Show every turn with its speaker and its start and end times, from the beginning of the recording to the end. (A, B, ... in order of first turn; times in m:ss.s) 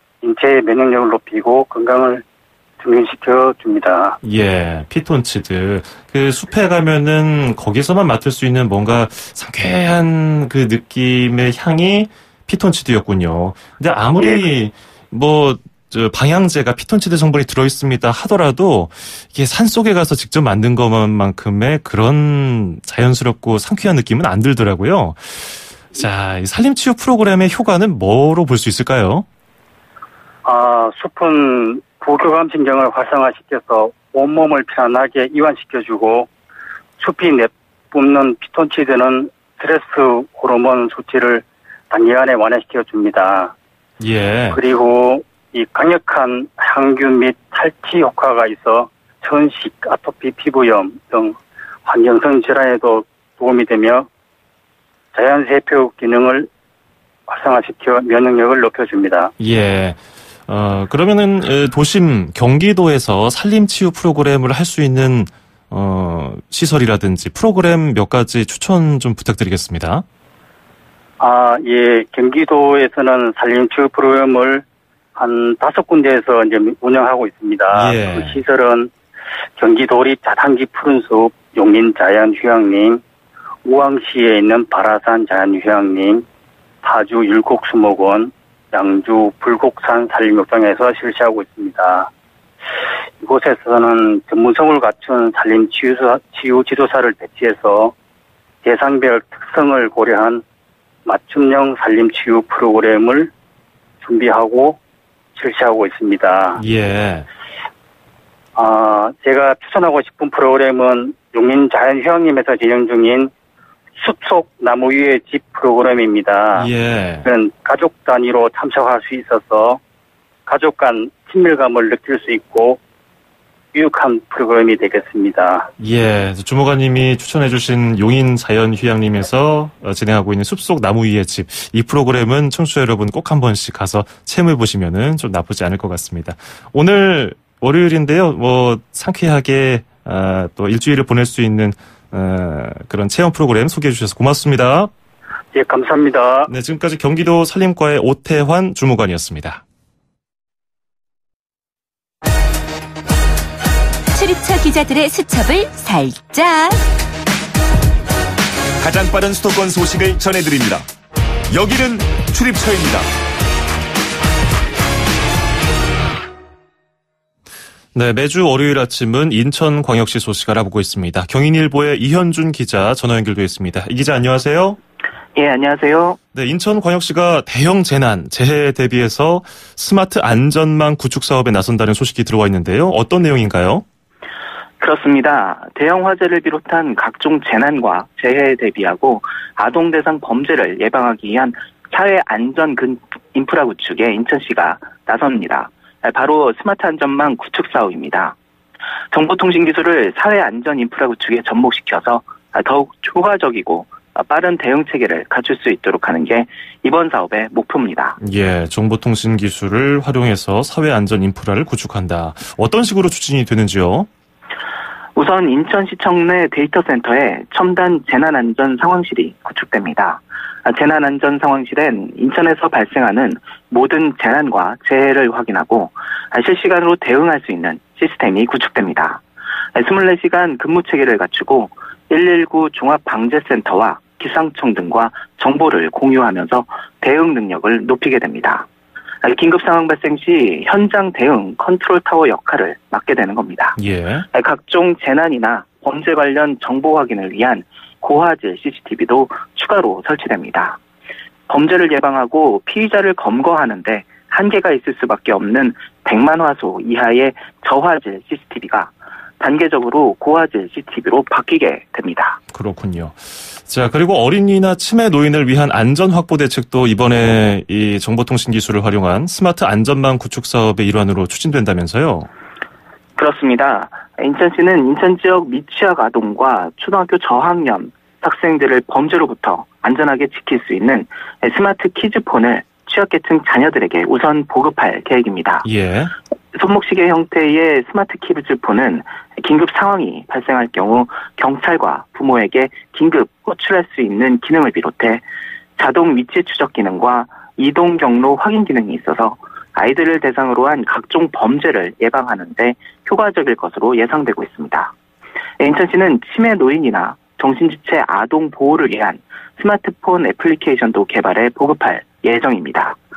0:00.2-0:02.2 A
0:02.8-0:04.2 A
0:04.2-0:29.2 B
0:30.4-0:36.3 A
0:37.0-0:43.5 A
0:44.0-0:44.6 B
0:44.5-0:54.1 A
0:55.1-0:56.5 A
0:57.3-0:59.3 A
0:59.4-1:10.0 B
1:11.2-1:14.6 A
1:15.1-1:18.9 A
1:17.7-1:18.4 B
1:19.6-1:23.0 A
1:23.6-1:26.2 A
1:26.8-1:32.1 A
1:33.2-1:37.9 A
1:38.6-1:40.4 A
1:41.0-1:43.3 A
1:44.0-1:44.8 A
1:45.3-1:46.6 A
1:46.6-1:47.3 B
1:48.6-1:53.3 A
1:54.0-1:56.7 A
1:56.5-1:57.3 B
1:57.2-1:59.8 A
2:00.5-2:02.8 A
2:03.7-2:05.7 A
2:05.8-2:24.9 B
2:25.5-2:26.5 A
2:26.5-2:29.6 B
2:34.1-2:36.8 C
2:38.8-2:40.8 D
2:41.5-2:43.1 D
2:47.9-2:54.8 B
2:55.3-2:56.2 E
2:56.3-3:03.8 B
3:04.8-3:18.4 E
3:19.1-3:28.2 E
3:28.2-3:34.1 B
3:35.1-3:49.2 E
3:49.7-3:58.7 E
3:59.2-4:03.8 E
4:03.8-4:04.2 B
4:04.3-4:10.8 E
4:11.5-4:22.4 E
4:22.5-4:32.3 B
4:33.2-4:45.6 E
4:45.6-4:46.1 B
4:46.5-4:55.2 E
4:55.8-5:04.9 E
5:05.6-5:13.0 E